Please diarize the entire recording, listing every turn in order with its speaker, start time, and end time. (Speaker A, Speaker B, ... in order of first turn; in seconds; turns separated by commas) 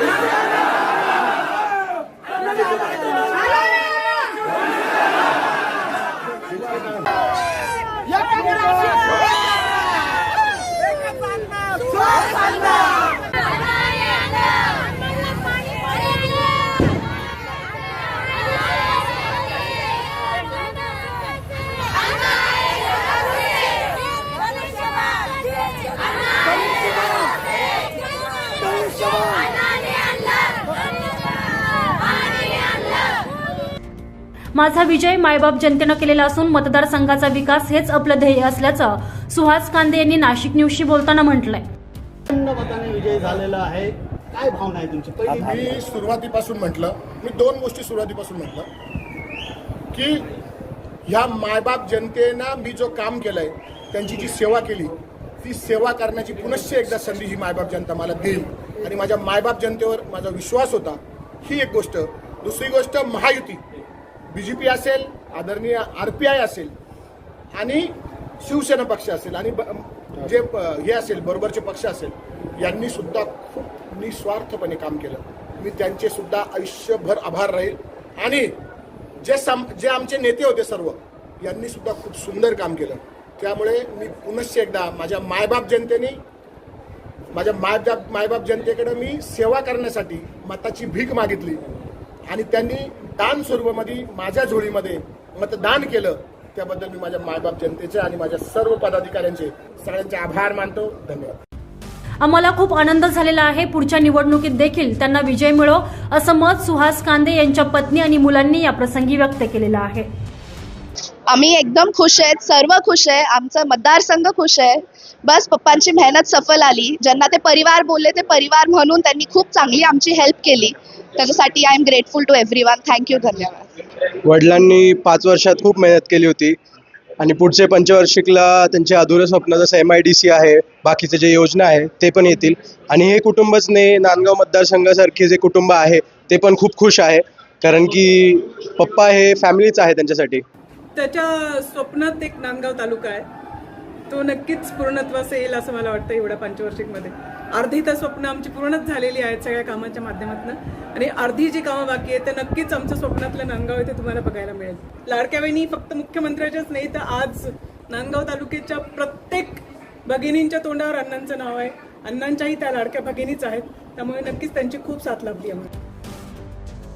Speaker A: 6.5-7.1, Speaker B: 34.5-41.6, Speaker C: 42.3-45.8, Speaker A: 45.3-48.7, Speaker A: 49.9-50.2, Speaker A: 51.0-63.6, Speaker A: 64.3-66.7, Speaker A: 67.6-78.5, Speaker A: 79.2-86.2, Speaker A: 87.3-91.7, Speaker A: 92.3-101.4, Speaker B: 102.2-110.1, Speaker D: 111.3-123.7, Speaker E: 124.2-126.6, Speaker E: 127.2-140.4, Speaker F: 140.9-143.2, Speaker F: 144.1-165.7